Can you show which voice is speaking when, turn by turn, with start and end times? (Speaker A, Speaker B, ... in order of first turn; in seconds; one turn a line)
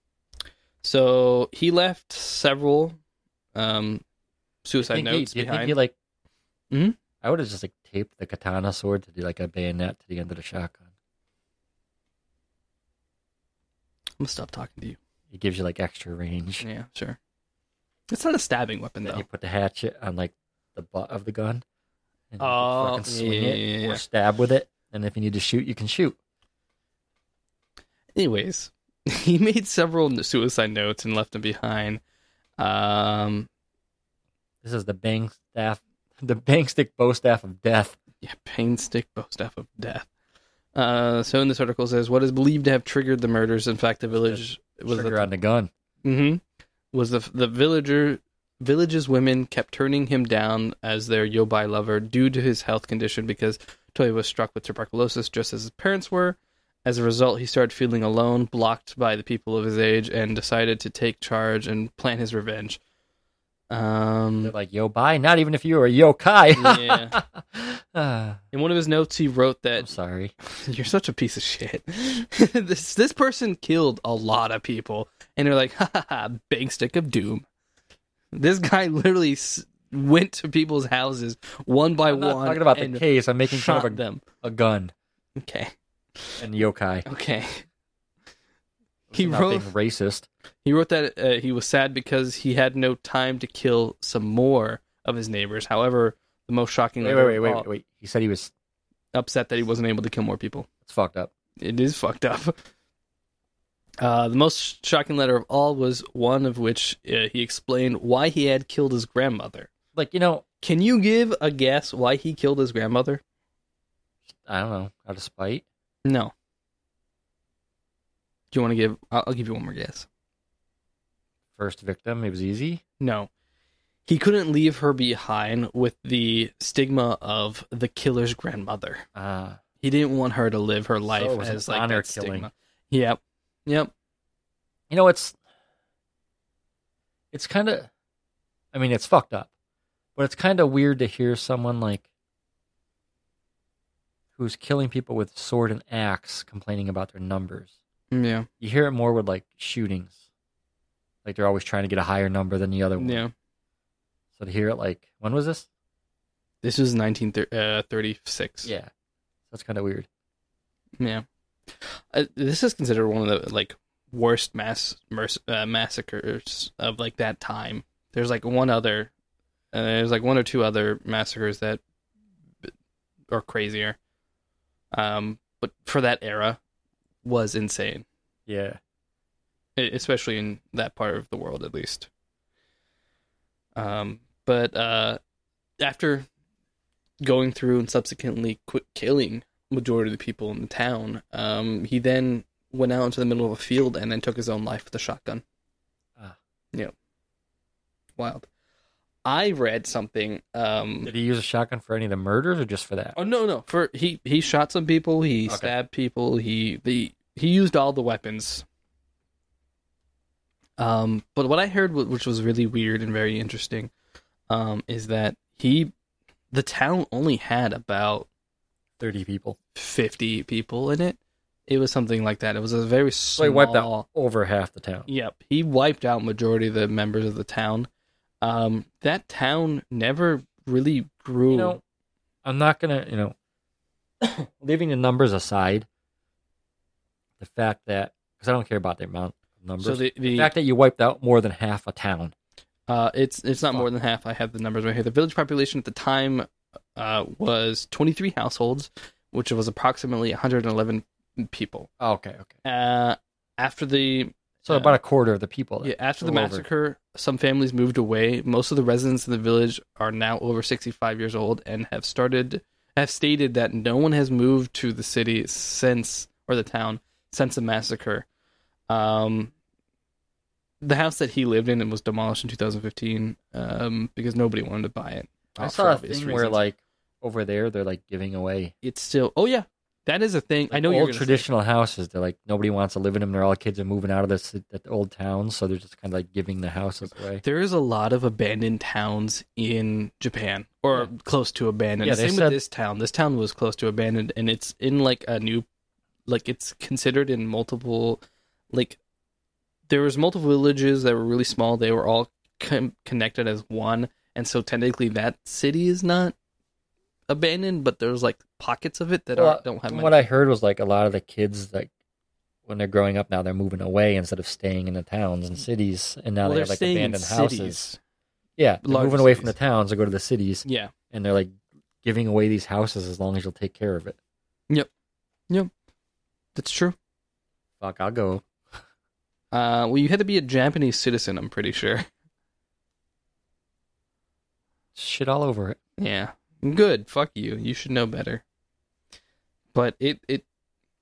Speaker A: 0.8-3.0
Speaker A: 3.5-4.0
Speaker A: 4.6-5.8
Speaker B: 4.8-5.9
Speaker A: 6.7-7.0
Speaker B: 7.2-10.8
Speaker A: 14.2-15.0
Speaker B: 15.3-16.6
Speaker A: 16.6-17.2
Speaker A: 18.1-19.2
Speaker B: 19.0-21.6
Speaker B: 22.3-26.2
Speaker A: 22.4-24.0
Speaker A: 28.1-32.0
Speaker A: 32.6-33.5
Speaker B: 34.6-38.0
Speaker A: 38.2-40.1
Speaker A: 40.7-45.3
Speaker B: 44.1-45.7
Speaker A: 46.0-46.4
Speaker A: 46.9-62.8
Speaker A: 63.7-64.5
Speaker B: 64.4-68.4
Speaker A: 66.5-67.2
Speaker A: 68.5-69.9
Speaker B: 69.8-70.3
Speaker A: 70.4-77.5
Speaker A: 78.3-84.2
Speaker B: 82.1-84.9
Speaker A: 85.4-85.7
Speaker B: 86.4-87.0
Speaker A: 87.0-87.6
Speaker B: 89.1-90.2
Speaker A: 89.1-89.7
Speaker A: 90.6-97.6
Speaker B: 97.0-98.5
Speaker A: 99.1-100.7
Speaker B: 100.8-101.3
Speaker A: 101.6-102.6
Speaker A: 104.0-109.7
Speaker B: 109.9-110.4
Speaker A: 110.6-113.2
Speaker B: 114.4-115.6
Speaker A: 116.0-116.3
Speaker A: 118.5-120.1
Speaker B: 121.5-122.8
Speaker A: 123.0-123.3
Speaker A: 124.0-129.1
Speaker B: 129.1-129.6
Speaker A: 129.8-133.9
Speaker B: 131.1-132.5
Speaker B: 134.9-135.3
Speaker B: 137.3-137.9
Speaker B: 138.7-139.5
Speaker B: 140.2-142.0
Speaker B: 144.4-147.7
Speaker A: 148.1-148.5
Speaker B: 148.6-150.1
Speaker B: 151.2-153.2
Speaker A: 153.0-153.3
Speaker B: 154.4-155.7
Speaker A: 156.6-158.7
Speaker B: 158.6-158.9
Speaker B: 159.5-160.1
Speaker A: 161.0-169.1
Speaker A: 169.7-171.8
Speaker A: 173.3-174.0
Speaker A: 174.9-176.6
Speaker A: 177.2-178.0
Speaker B: 178.5-178.8
Speaker A: 179.8-182.1
Speaker A: 183.8-185.2
Speaker A: 185.8-186.3
Speaker A: 187.2-195.4
Speaker A: 198.2-198.4
Speaker A: 199.2-201.1
Speaker B: 201.0-203.2
Speaker A: 203.2-208.6
Speaker B: 205.5-205.7
Speaker A: 210.8-213.9
Speaker A: 214.5-215.9
Speaker A: 216.5-218.3
Speaker B: 219.0-219.6
Speaker A: 219.7-224.0
Speaker B: 223.4-225.1
Speaker A: 225.1-227.9
Speaker A: 228.4-231.8
Speaker B: 231.5-231.8
Speaker B: 232.4-233.3
Speaker B: 234.2-235.9
Speaker B: 237.4-242.3
Speaker A: 239.8-240.5
Speaker A: 242.9-251.9
Speaker B: 252.0-252.5
Speaker A: 252.6-254.9
Speaker B: 254.6-256.6
Speaker A: 255.8-268.2
Speaker A: 268.9-269.5
Speaker A: 270.8-276.6
Speaker B: 275.6-278.7
Speaker A: 278.8-281.4
Speaker B: 280.7-287.4
Speaker A: 287.4-295.6
Speaker B: 292.0-292.6
Speaker A: 296.3-299.0
Speaker A: 299.9-306.3
Speaker A: 307.3-310.1
Speaker B: 309.3-311.9
Speaker B: 312.6-317.9
Speaker A: 316.4-318.0
Speaker B: 318.6-324.2
Speaker A: 318.8-319.5
Speaker A: 320.6-320.9
Speaker A: 326.5-326.9
Speaker B: 327.8-328.4
Speaker A: 329.5-332.1
Speaker B: 334.9-335.8
Speaker A: 336.0-338.4
Speaker A: 339.7-340.4